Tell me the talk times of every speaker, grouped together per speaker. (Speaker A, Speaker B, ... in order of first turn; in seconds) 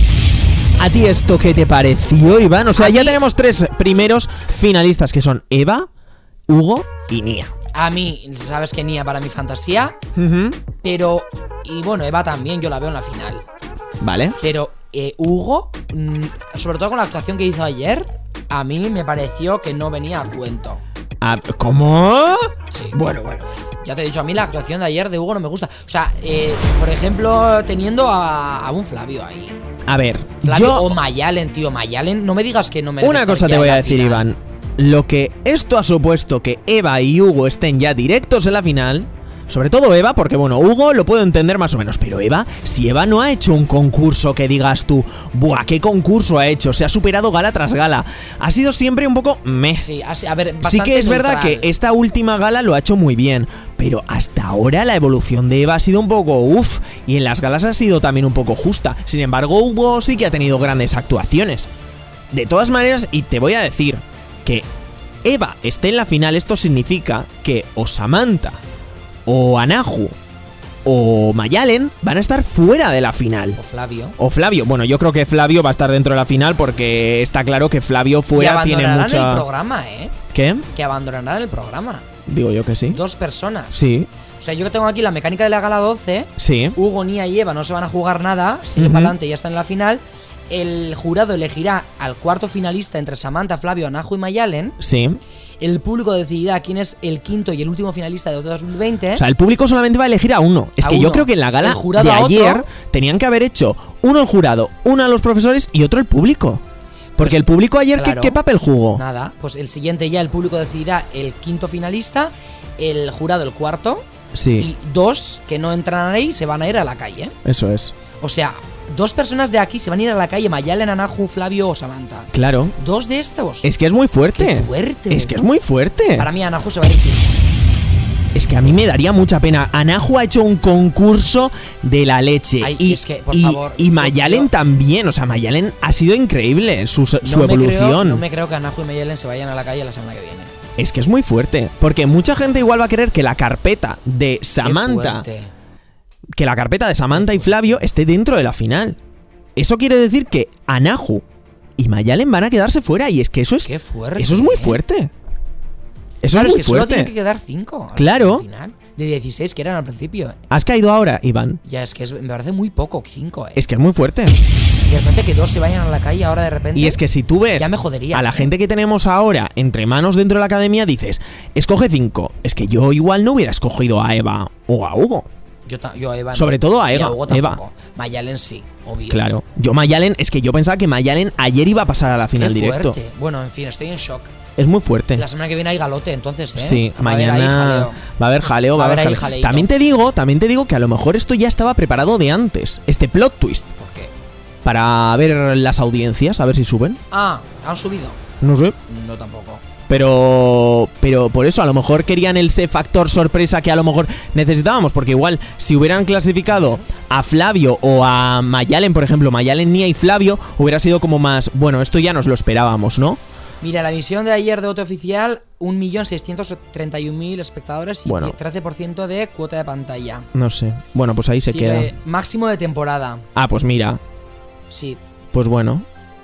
Speaker A: 0.8-5.9, 6.5-7.5, 10.2-10.6, 14.0-14.4, 21.2-23.5, 29.9-31.0, 33.0-49.9, 50.6-61.7, 62.3-64.7, 65.2-68.6, 69.2-70.2, 70.8-73.6, 74.2-79.4, 80.3-80.7, 82.3-83.0, 83.7-84.1, 86.4-86.8, 88.8-89.1, 94.8-95.2, 99.1-106.6, 107.2-109.0, 114.3-114.7, 117.4-117.9, 122.3-122.7, 123.6-126.3, 128.3-138.2, 140.8-145.2, 146.3-149.0, 149.6-151.2, 151.8-155.1, 156.2-157.1, 157.9-158.4, 160.5-161.6, 163.6-164.4, 166.7-175.3, 176.3-177.6, 179.1-183.0, 184.6-185.2, 186.6-193.7, 194.6-197.0, 198.4-198.8, 199.9-213.2, 218.0-218.3, 220.3-221.9, 223.3-224.0, 225.3-225.8
Speaker B: 2.8-3.2, 7.7-10.0, 10.8-13.4, 14.4-20.8, 22.7-23.0, 23.8-29.6, 30.4-34.3, 49.7-51.7, 73.5-74.2, 78.3-80.1, 80.7-82.0, 82.9-94.8, 95.6-99.2, 100.8-102.7, 107.2-108.4, 108.9-117.3, 118.2-123.7, 124.3-125.4, 126.2-127.4, 132.6-134.5, 137.2-140.5, 144.6-145.5, 147.1-147.7, 153.6-154.8, 156.3-160.4, 161.6-163.6, 164.8-167.0, 167.6-168.5, 175.7-179.3, 182.3-184.3, 185.1-188.0, 188.7-189.7, 193.8-194.1, 197.1-198.2, 198.9-199.6, 213.6-220.3, 221.4-223.2, 224.7-225.0